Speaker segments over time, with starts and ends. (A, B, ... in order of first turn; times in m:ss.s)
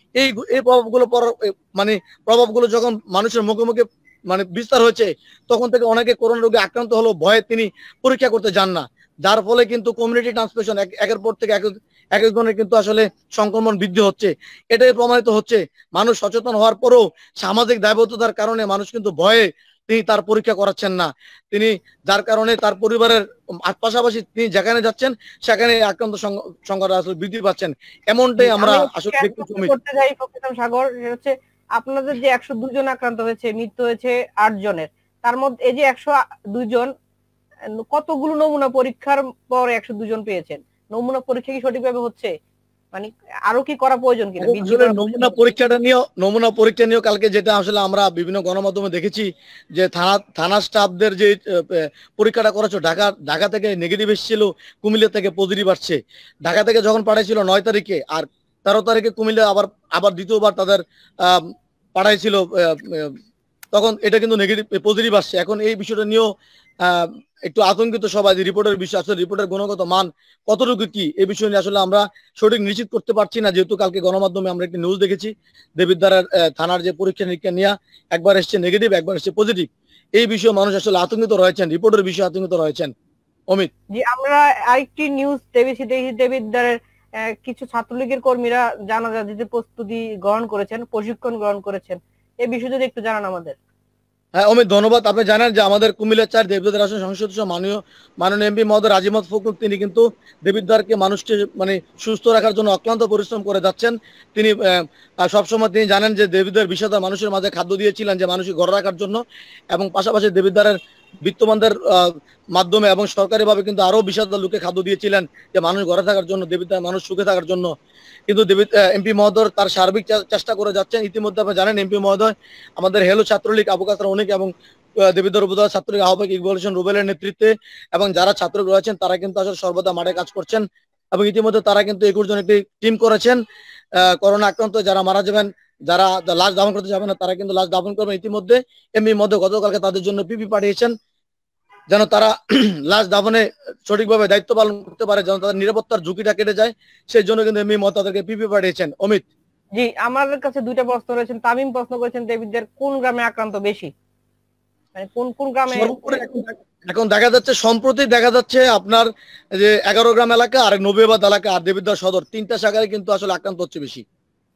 0:00.2-0:29.7 A
0:28.4-0:36.9 B
0:37.8-0:42.3 B
0:42.9-0:45.5 B
0:44.4-1:03.1 A
1:03.7-1:06.3 A
1:06.8-1:22.9 A
1:23.9-1:26.7 B
1:27.3-1:33.6 B
1:34.4-1:49.2 A
1:49.7-1:57.7 A
1:58.3-2:04.5 A
2:05.0-2:13.4 A
2:14.0-2:20.9 A
2:21.9-2:29.3 A
2:29.7-2:33.9 B
2:34.9-2:36.2 B
2:35.7-2:44.0 A